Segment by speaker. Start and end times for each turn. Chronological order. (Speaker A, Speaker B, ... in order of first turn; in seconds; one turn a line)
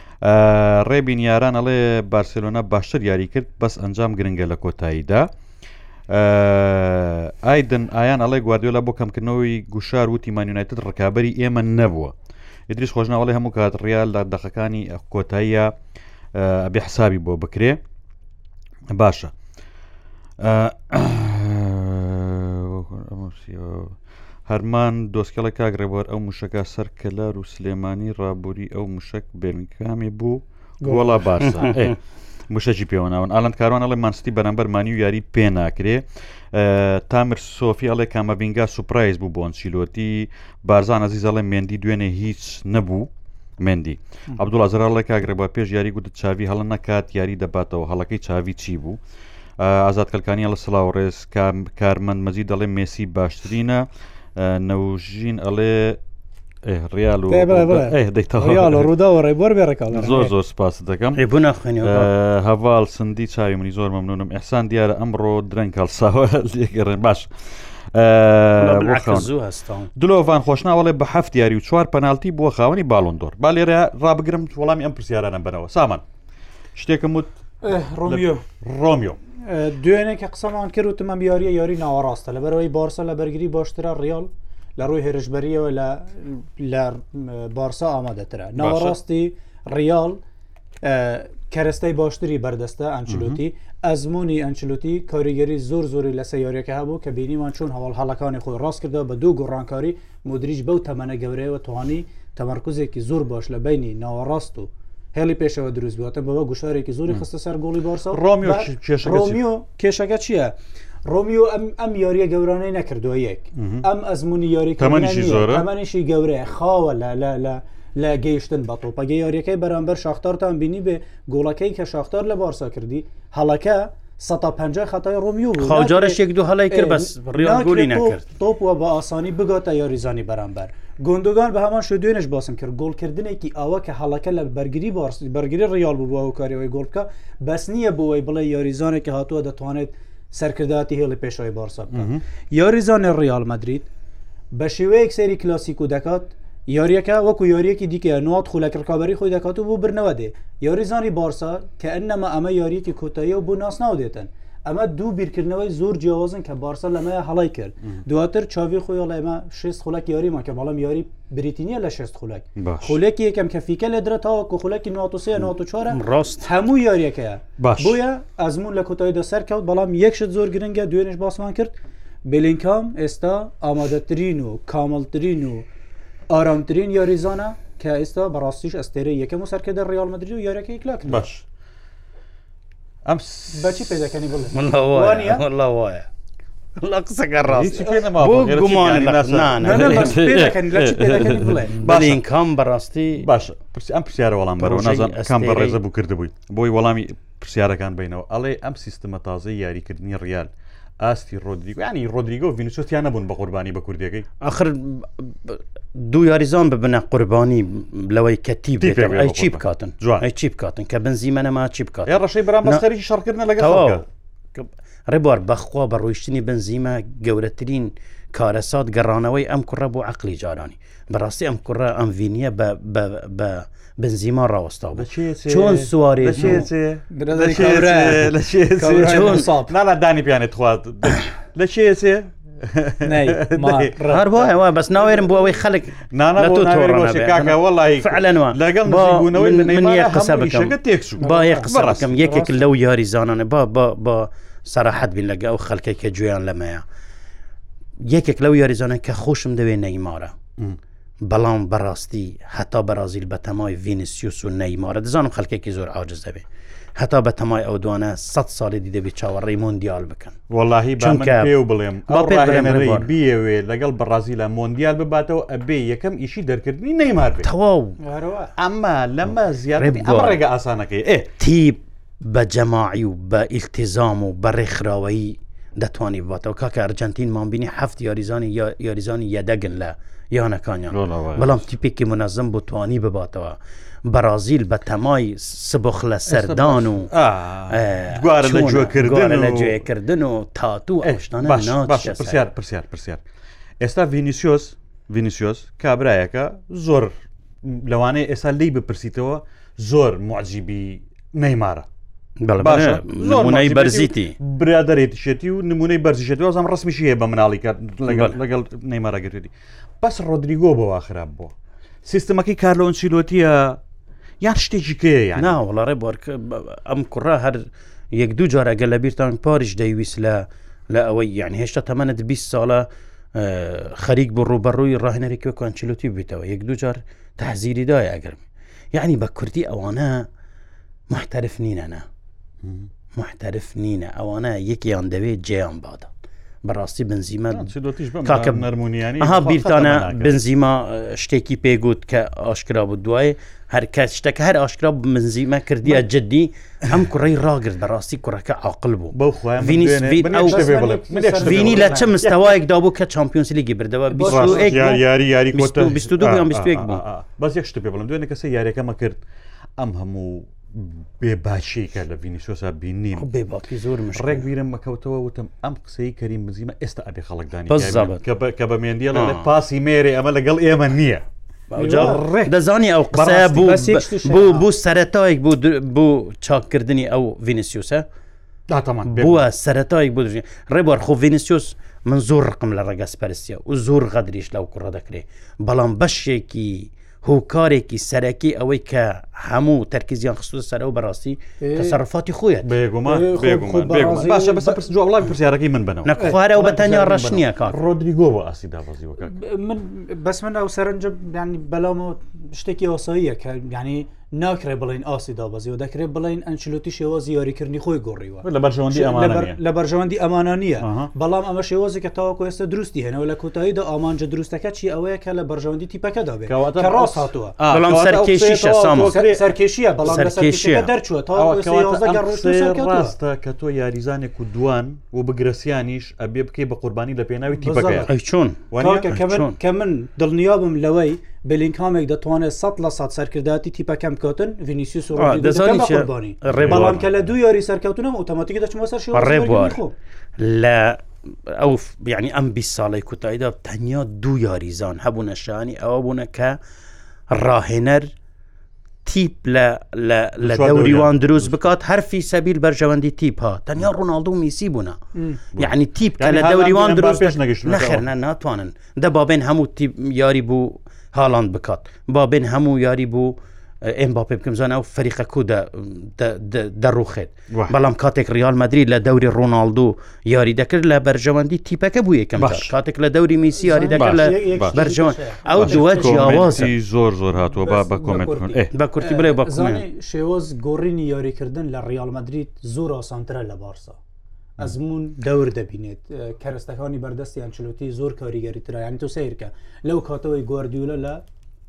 Speaker A: 0.2-5.3
Speaker A: 6.1-12.1
Speaker A: 12.7-15.7
Speaker A: 16.3-17.8
Speaker A: 18.9-19.3
Speaker A: 20.4-23.9
Speaker A: 24.5-31.9
Speaker B: 30.8-31.3
Speaker C: 31.4-31.9
Speaker A: 32.5-49.0
Speaker A: 49.6-56.0
Speaker A: 56.6-58.9
Speaker B: 57.3-60.3
Speaker A: 59.9-61.2
Speaker C: 61.1-62.1
Speaker A: 61.8-67.3
Speaker A: 67.9-69.3
Speaker C: 68.6-69.9
Speaker A: 69.9-76.0
Speaker A: 76.7-79.2
Speaker B: 77.6-78.4
Speaker B: 79.5-90.2
Speaker A: 88.6-89.0
Speaker B: 90.8-126.2
Speaker A: 93.1-93.4
Speaker A: 108.1-109.5
Speaker A: 113.5-113.8
Speaker A: 114.8-115.7
Speaker C: 125.6-128.2
Speaker B: 126.7-143.9
Speaker A: 141.9-142.2
Speaker B: 144.5-171.7
Speaker A: 162.6-163.0
Speaker C: 165.9-166.5
Speaker A: 167.6-168.0
Speaker B: 172.2-175.7
Speaker B: 176.3-181.2
Speaker A: 181.1-181.4
Speaker A: 183.0-184.1
Speaker B: 183.5-185.4
Speaker C: 184.5-186.1
Speaker C: 186.8-190.2
Speaker A: 187.4-192.2
Speaker B: 189.6-191.7
Speaker C: 191.7-193.3
Speaker A: 193.2-204.3
Speaker C: 194.6-195.8
Speaker C: 204.4-212.8
Speaker A: 208.8-210.2
Speaker A: 212.1-214.0
Speaker C: 213.6-214.0
Speaker C: 214.5-226.7
Speaker A: 224.9-235.4
Speaker B: 226.4-229.7
Speaker C: 229.0-229.5
Speaker B: 233.0-234.2
Speaker C: 234.1-246.8
Speaker A: 236.1-242.2
Speaker B: 241.2-242.5
Speaker C: 248.0-250.3
Speaker C: 251.2-256.4
Speaker C: 256.9-260.4
Speaker A: 260.5-267.5
Speaker C: 261.0-261.6
Speaker C: 262.1-263.1
Speaker C: 267.4-268.0
Speaker B: 268.0-268.5
Speaker A: 268.6-271.3
Speaker C: 269.8-270.4
Speaker C: 271.4-287.1
Speaker A: 280.9-281.6
Speaker A: 286.3-289.8
Speaker C: 287.7-292.4
Speaker A: 291.0-293.2
Speaker A: 293.8-301.9
Speaker C: 302.4-304.4
Speaker A: 302.6-311.5
Speaker C: 308.1-308.3
Speaker A: 312.0-313.8
Speaker A: 314.4-315.6
Speaker C: 315.4-328.4
Speaker C: 328.9-330.3
Speaker C: 331.1-332.0
Speaker A: 332.6-332.9
Speaker C: 333.1-336.1
Speaker C: 336.6-337.7
Speaker A: 337.5-340.4
Speaker C: 338.2-338.7
Speaker C: 339.2-350.8
Speaker A: 349.1-352.5
Speaker B: 350.3-352.1
Speaker C: 351.4-355.0
Speaker B: 354.1-355.0
Speaker A: 354.3-359.2
Speaker C: 355.5-357.0
Speaker A: 359.8-363.2
Speaker C: 363.2-364.5
Speaker A: 364.1-371.2
Speaker C: 367.7-368.2
Speaker C: 369.1-369.4
Speaker C: 371.7-378.1
Speaker B: 371.8-372.3
Speaker A: 371.9-372.5
Speaker A: 373.1-373.7
Speaker B: 373.3-374.7
Speaker A: 378.7-379.4
Speaker C: 379.1-392.7
Speaker B: 391.6-392.0
Speaker A: 392.6-399.4
Speaker B: 393.1-394.8
Speaker C: 396.0-397.8
Speaker B: 396.2-396.8
Speaker B: 399.2-417.6
Speaker A: 408.4-409.6
Speaker A: 410.8-411.1
Speaker A: 416.5-419.5
Speaker C: 417.7-419.2
Speaker B: 419.0-423.1
Speaker C: 420.0-420.9
Speaker A: 421.3-428.1
Speaker B: 427.6-428.1
Speaker C: 428.1-429.6
Speaker A: 428.7-429.2
Speaker B: 428.8-439.9
Speaker C: 435.1-437.0
Speaker A: 436.5-437.1
Speaker C: 439.1-439.8
Speaker C: 440.4-446.6
Speaker C: 447.3-448.1
Speaker C: 449.0-455.0
Speaker A: 450.4-451.6
Speaker A: 455.5-458.1
Speaker C: 455.6-476.7
Speaker A: 472.4-472.7
Speaker B: 473.5-476.7
Speaker A: 473.9-474.9
Speaker A: 475.5-478.7
Speaker B: 477.6-484.0
Speaker C: 478.7-479.8
Speaker B: 484.6-491.2